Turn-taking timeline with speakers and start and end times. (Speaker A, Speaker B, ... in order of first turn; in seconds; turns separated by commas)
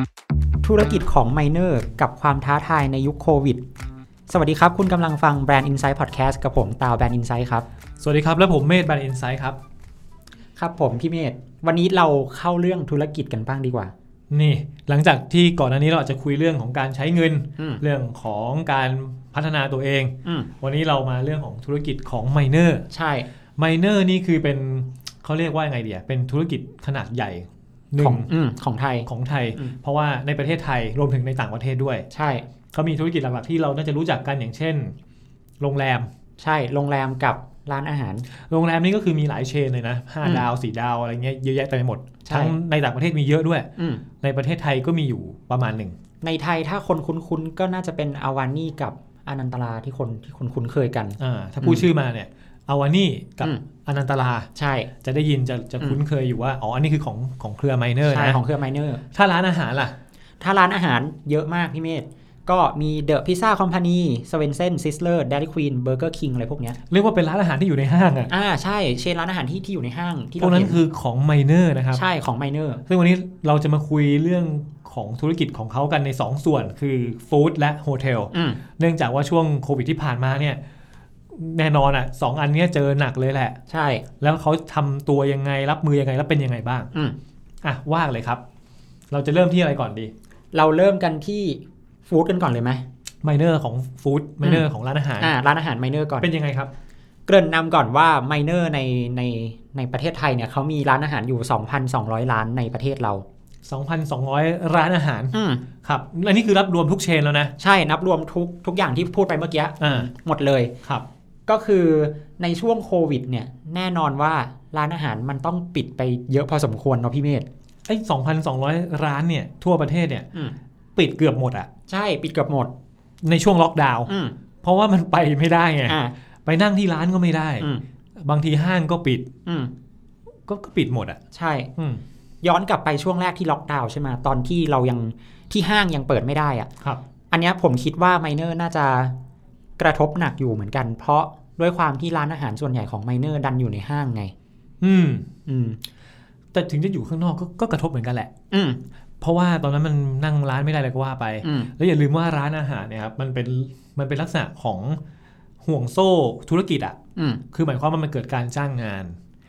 Speaker A: 0.6-3.6, Speaker A: 4.3-7.7, Speaker B: 8.0-9.6, Speaker A: 10.6-13.9, Speaker B: 14.3-22.9, Speaker A: 22.9-23.3, Speaker B: 23.6-28.3, Speaker A: 28.0-29.8, Speaker B: 29.1-32.1, Speaker A: 32.1-32.5, Speaker B: 32.7-34.9, Speaker B: 35.6-36.1, Speaker A: 36.4-38.3, Speaker B: 38.4-43.7, Speaker A: 42.2-42.5, Speaker A: 43.8-44.0, Speaker B: 44.2-46.0, Speaker A: 46.2-51.9, Speaker B: 51.2-54.5, Speaker A: 54.6-54.9, Speaker B: 55.0-58.4, Speaker A: 58.1-59.0, Speaker B: 59.1-60.0, Speaker A: 60.4-66.8, Speaker B: 66.9-68.3, Speaker A: 68.3-70.8, Speaker B: 70.4-72.0, Speaker A: 71.9-72.8, Speaker B: 72.9-80.6, Speaker A: 78.3-78.6, Speaker B: 81.3-83.6, Speaker A: 83.7-84.0, Speaker B: 84.2-86.9, Speaker B: 87.6-88.4, Speaker B: 89.1-90.1, Speaker A: 90.5-92.8, Speaker B: 93.2-95.3, Speaker A: 95.2-96.3, Speaker B: 96.2-96.7, Speaker A: 97.3-103.2, Speaker B: 103.7-107.5, Speaker A: 105.3-105.6, Speaker A: 107.6-110.7, Speaker B: 109.8-110.1, Speaker A: 111.5-117.5, Speaker B: 117.9-120.3, Speaker B: 121.0-121.7, Speaker A: 121.9-122.7, Speaker B: 123.2-124.1, Speaker A: 124.1-124.3, Speaker B: 124.6-129.3, Speaker A: 125.9-126.1, Speaker A: 129.5-129.7, Speaker B: 130.5-131.2, Speaker A: 131.3-131.7, Speaker B: 131.8-132.0, Speaker A: 132.4-136.7, Speaker A: 137.3-139.1, Speaker A: 139.8-144.3, Speaker B: 144.8-145.3, Speaker A: 145.5-145.8, Speaker B: 146.5-148.3, Speaker A: 148.5-148.8, Speaker B: 149.2-155.0, Speaker A: 151.4-151.7, Speaker B: 155.6-157.0, Speaker A: 157.2-157.4, Speaker B: 157.5-159.2